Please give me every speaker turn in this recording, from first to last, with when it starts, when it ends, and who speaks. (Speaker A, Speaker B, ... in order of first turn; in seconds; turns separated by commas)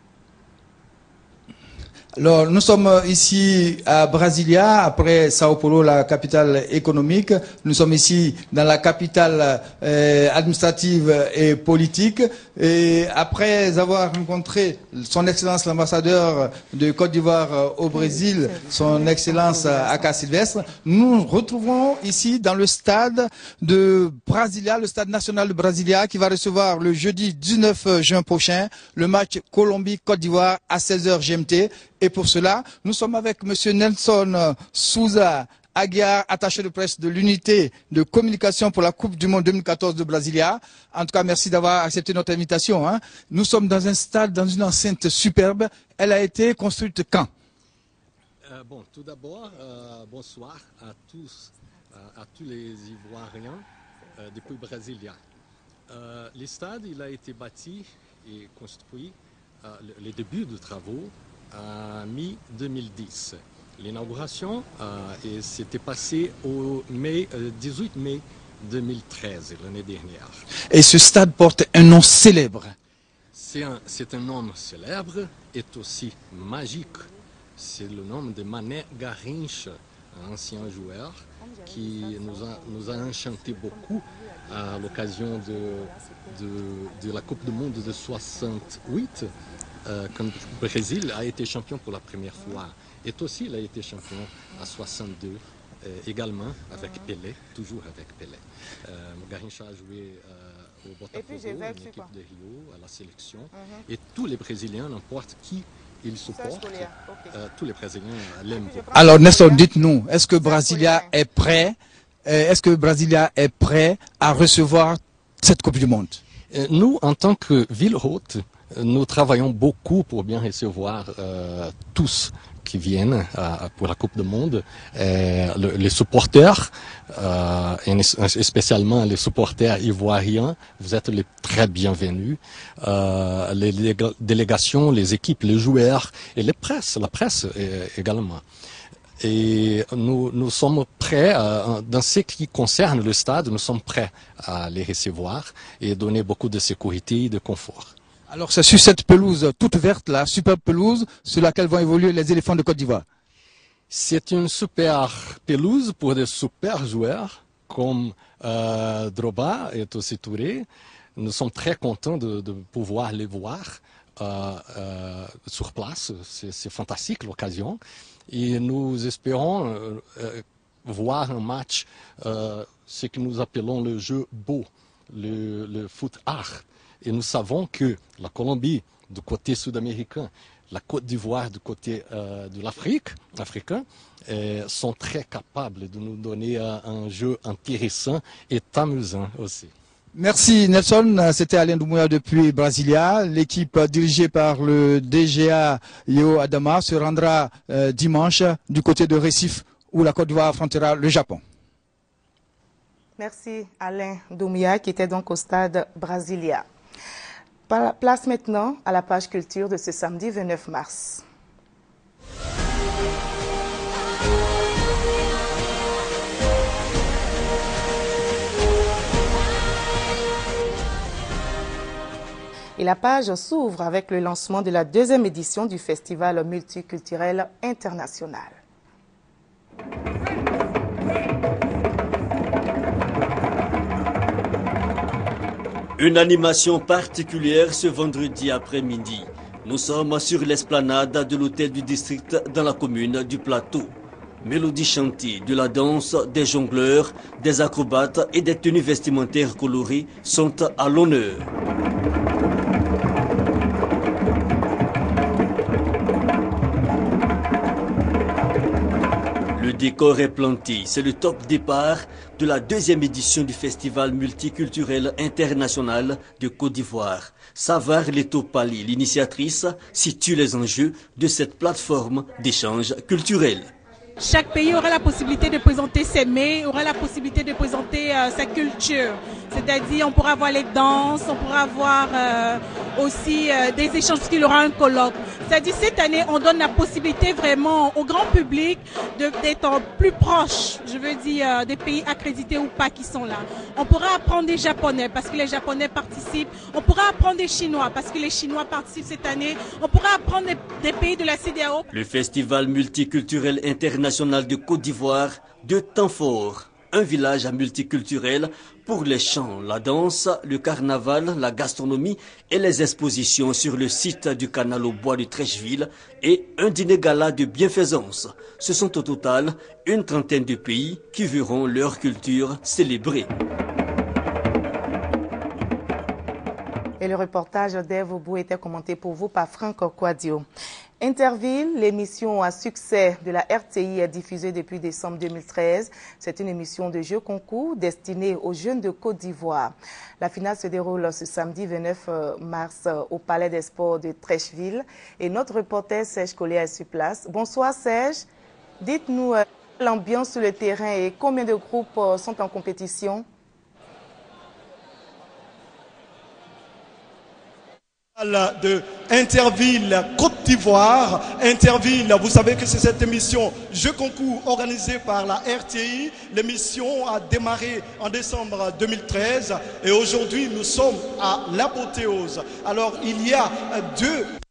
Speaker A: 2.2-47.3, Speaker B: 48.4-55.2, Speaker B: 55.9-70.4, Speaker A: 70.7-72.7, Speaker B: 73.3-89.3, Speaker C: 81.4-86.4, Speaker C: 86.9-88.8, Speaker B: 89.8-109.1, Speaker C: 92.4-92.6, Speaker C: 96.8-97.1, Speaker C: 101.1-102.1, Speaker C: 103.5-103.8, Speaker C: 106.2-107.4, Speaker C: 108.5-109.7, Speaker A: 109.0-111.8, Speaker C: 110.4-111.1, Speaker A: 112.3-116.2, Speaker B: 116.5-138.4, Speaker B: 139.2-147.9, Speaker A: 148.3-153.0, Speaker B: 153.9-189.7, Speaker A: 190.2-201.4, Speaker C: 203.2-206.6, Speaker C: 207.7-211.2, Speaker C: 222.8-228.6, Speaker D: 236.0-251.5, Speaker D: 259.5-273.7, Speaker E: 274.2-301.9, Speaker D: 301.9-323.3, Speaker C: 327.0-330.4, Speaker C: 331.0-348.2, Speaker C: 348.8-353.2, Speaker F: 358.2-374.3